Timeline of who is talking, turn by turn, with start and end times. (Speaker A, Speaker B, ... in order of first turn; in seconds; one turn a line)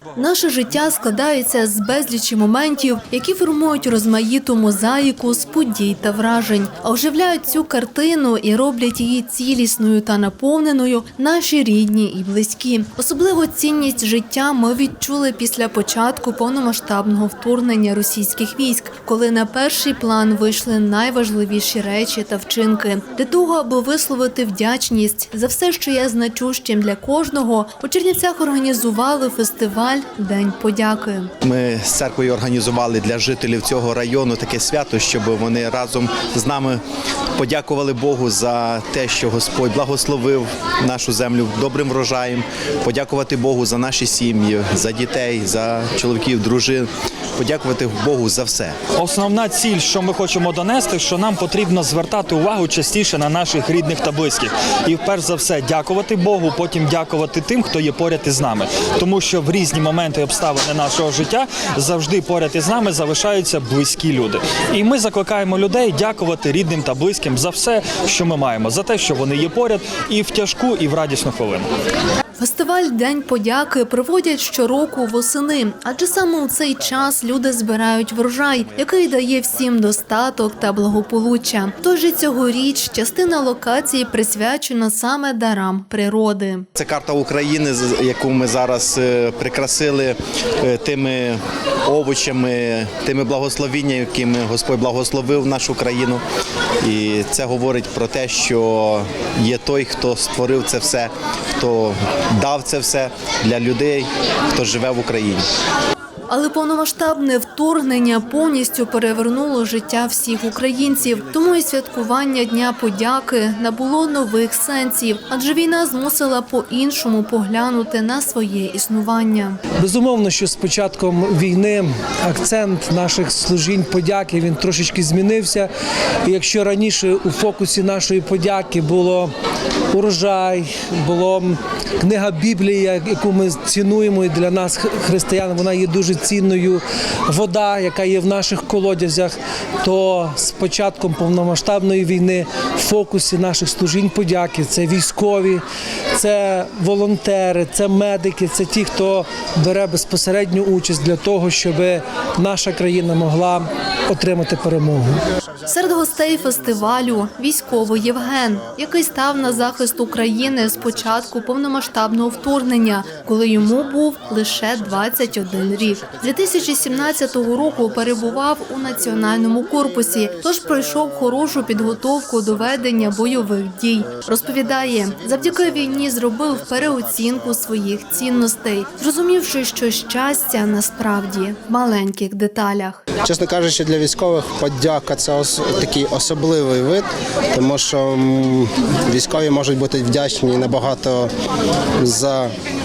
Speaker A: 0.2-31.3
Speaker B: 31.4-36.8
Speaker B: 37.3-48.8
Speaker C: 49.0-71.7
Speaker A: 72.4-86.7
Speaker B: 86.8-96.2
Speaker B: 96.8-105.4
Speaker A: 106.3-119.6
Speaker D: 119.8-125.7
Speaker D: 126.2-129.3
Speaker D: 129.9-145.6
Speaker D: 146.1-155.2
Speaker A: 155.7-183.0
Speaker E: 183.2-191.3
Speaker E: 192.0-192.5